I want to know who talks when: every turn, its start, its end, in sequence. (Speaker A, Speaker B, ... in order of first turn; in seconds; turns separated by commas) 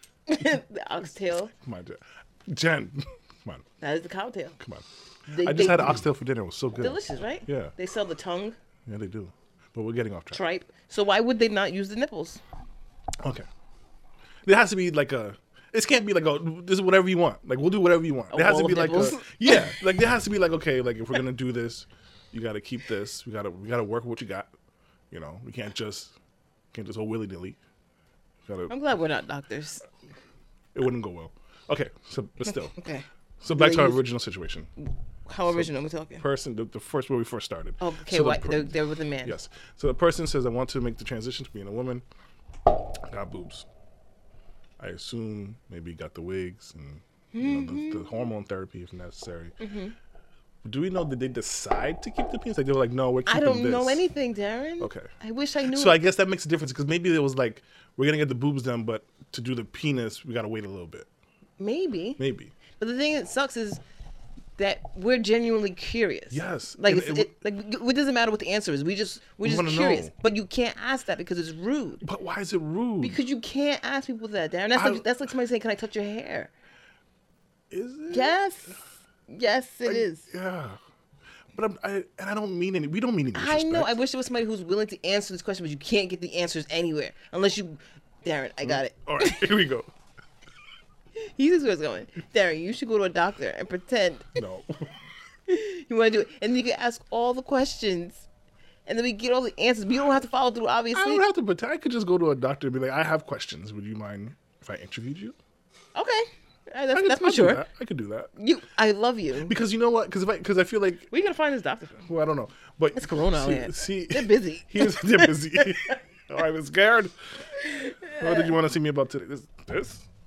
Speaker A: 0.3-1.5, Speaker B: 1.6-3.6, Speaker A: 3.8-4.5, Speaker B: 4.6-7.7, Speaker A: 5.3-6.0, Speaker A: 6.8-8.6, Speaker B: 8.9-10.4, Speaker A: 10.3-12.4, Speaker B: 13.2-13.4, Speaker B: 14.4-24.5, Speaker A: 18.3-19.6, Speaker B: 25.1-26.1, Speaker B: 26.7-27.6, Speaker B: 28.4-28.7, Speaker A: 28.7-29.8, Speaker B: 30.7-32.7, Speaker A: 32.6-34.0, Speaker B: 33.4-34.7, Speaker A: 35.3-36.2, Speaker B: 36.2-38.7, Speaker A: 37.8-39.3, Speaker B: 39.2-42.0, Speaker B: 43.0-43.6, Speaker B: 44.8-49.5, Speaker A: 47.3-48.1, Speaker A: 49.6-49.9, Speaker B: 50.6-54.0, Speaker A: 53.3-56.0, Speaker B: 54.8-55.1, Speaker B: 55.7-61.1, Speaker A: 61.6-62.2, Speaker B: 62.2-62.5, Speaker A: 62.8-63.8, Speaker A: 64.6-72.0, Speaker B: 66.3-67.3, Speaker B: 69.4-70.1, Speaker B: 72.0-73.2, Speaker A: 73.0-76.5, Speaker B: 74.7-75.0, Speaker B: 77.7-78.3, Speaker A: 78.1-80.2, Speaker B: 79.8-80.8, Speaker B: 81.5-83.9, Speaker A: 83.3-89.4, Speaker B: 88.6-89.9, Speaker A: 91.2-94.4, Speaker B: 94.3-94.9, Speaker A: 95.5-98.2, Speaker A: 98.8-101.2, Speaker B: 100.9-105.3, Speaker A: 105.9-107.6, Speaker B: 106.9-108.3, Speaker A: 108.4-109.5, Speaker B: 109.4-111.1, Speaker A: 111.1-112.0, Speaker B: 112.0-117.1, Speaker A: 113.0-115.9, Speaker A: 117.6-118.5, Speaker B: 118.2-120.0